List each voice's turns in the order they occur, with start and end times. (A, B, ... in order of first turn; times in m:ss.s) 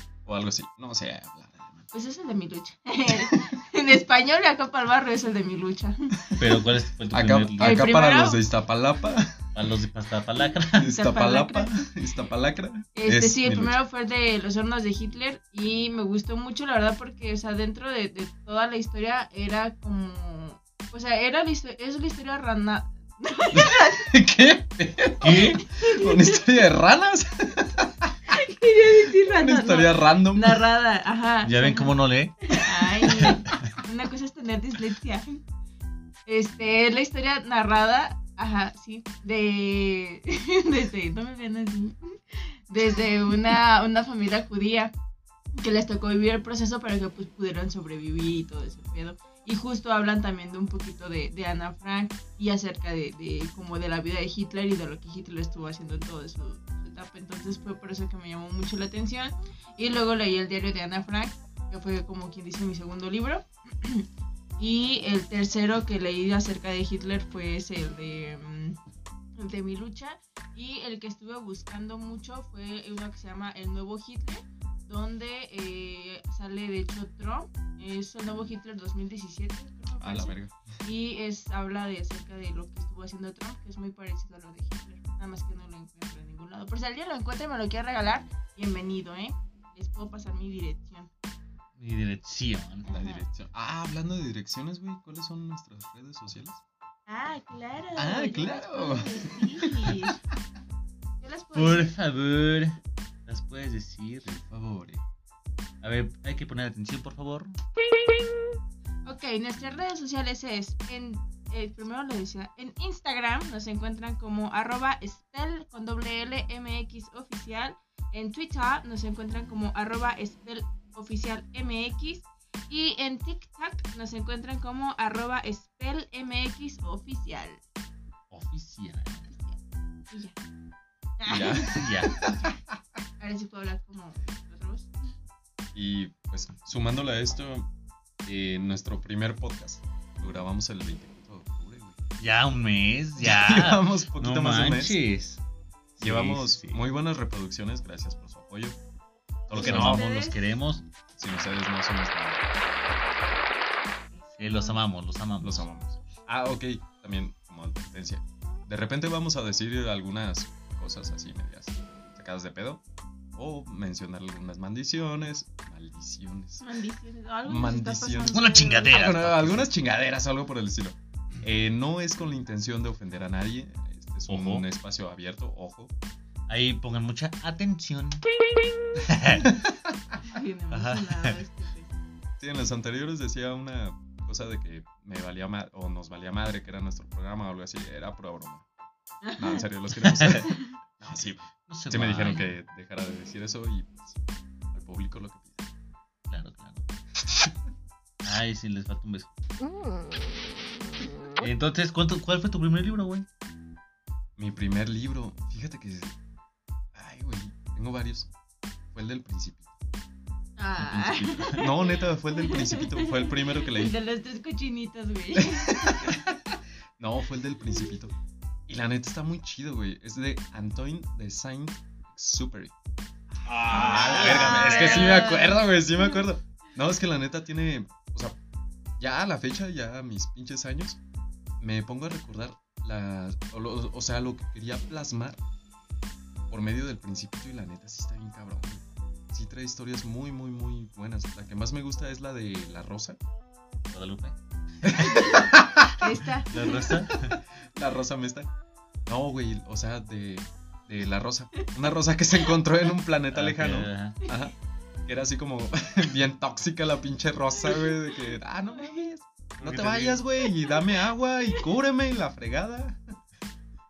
0:00.3-0:01.8 A
0:01.9-0:06.2 B
0:06.4-0:07.9 C
0:07.1-0:09.4 A
0:07.6-0:08.4 B
0:09.5-0:11.0 C
0:10.8-0:13.8 A
0:10.9-0:11.9 B
0:13.0-0:24.1 B
0:23.5-0:28.1 A
0:25.2-0:25.6 C
0:25.2-0:26.4 B
0:28.3-0:35.4 B
0:29.2-0:30.6 A
0:31.4-0:33.6 C
0:36.3-0:44.9 B
0:45.6-1:04.1 B
1:04.6-1:08.8 B
1:09.4-1:31.1 B
1:20.0-1:20.5 A
1:31.8-1:32.9 C
1:32.9-1:33.2 B
1:32.9-1:36.6 A
1:37.1-1:40.2 B
1:38.0-1:40.1 A
1:41.2-1:41.9 B
1:41.6-1:44.4 C
1:44.2-1:45.0 A
1:45.8-1:47.6 C
1:49.0-2:07.6 B
2:08.3-2:09.3 C
2:09.3-2:09.6 B
2:10.1-2:10.4 B
2:11.2-2:11.9 B
2:11.3-2:12.5 A
2:11.6-2:12.3 C
2:13.2-2:15.1 B
2:15.8-2:17.7 A
2:18.2-2:22.0 A
2:22.2-2:25.4 C
2:23.2-2:25.0 A
2:26.0-2:26.8 C
2:26.0-2:28.8 A
2:29.5-2:30.0 A
2:29.5-2:30.5 B
2:29.5-2:30.9 C
2:31.2-2:32.4 A
2:34.1-2:34.8 B
2:34.4-2:35.7 C
2:35.4-2:42.8 A
2:43.4-2:46.6 A
2:46.6-2:49.0 B
2:47.4-2:55.9 A
2:48.3-2:49.7 C
2:54.3-2:54.6 C
2:56.5-2:58.2 C
2:59.0-2:59.6 C
3:00.2-3:01.9 B
3:00.7-3:01.4 C
3:02.4-3:08.6 A
3:09.2-3:09.6 B
3:09.4-3:14.2 A
3:10.0-3:10.4 C
3:11.7-3:12.5 C
3:14.7-3:15.7 A
3:16.3-3:16.8 C
3:18.2-3:19.3 C
3:21.4-3:23.3 C
3:24.4-3:26.2 A
3:26.9-3:28.3 A
3:28.9-3:29.7 A
3:30.6-3:36.2 B
3:30.8-3:33.9 A
3:31.3-3:31.6 C
3:35.6-3:36.4 A
3:37.0-3:38.1 A
3:38.7-3:42.7 A
3:43.4-3:45.4 C
3:43.7-3:46.2 B
3:43.7-3:48.4 A
3:49.0-3:51.0 A
3:51.6-3:55.4 A
3:56.5-4:03.2 A
4:03.9-4:05.4 C
4:04.8-4:06.0 A
4:05.0-4:07.0 B
4:06.5-4:07.4 C
4:06.7-4:08.5 A
4:09.1-4:14.5 A
4:13.3-4:14.2 C
4:15.1-4:23.2 A
4:18.7-4:19.1 B
4:19.6-4:20.2 C
4:20.6-4:21.0 B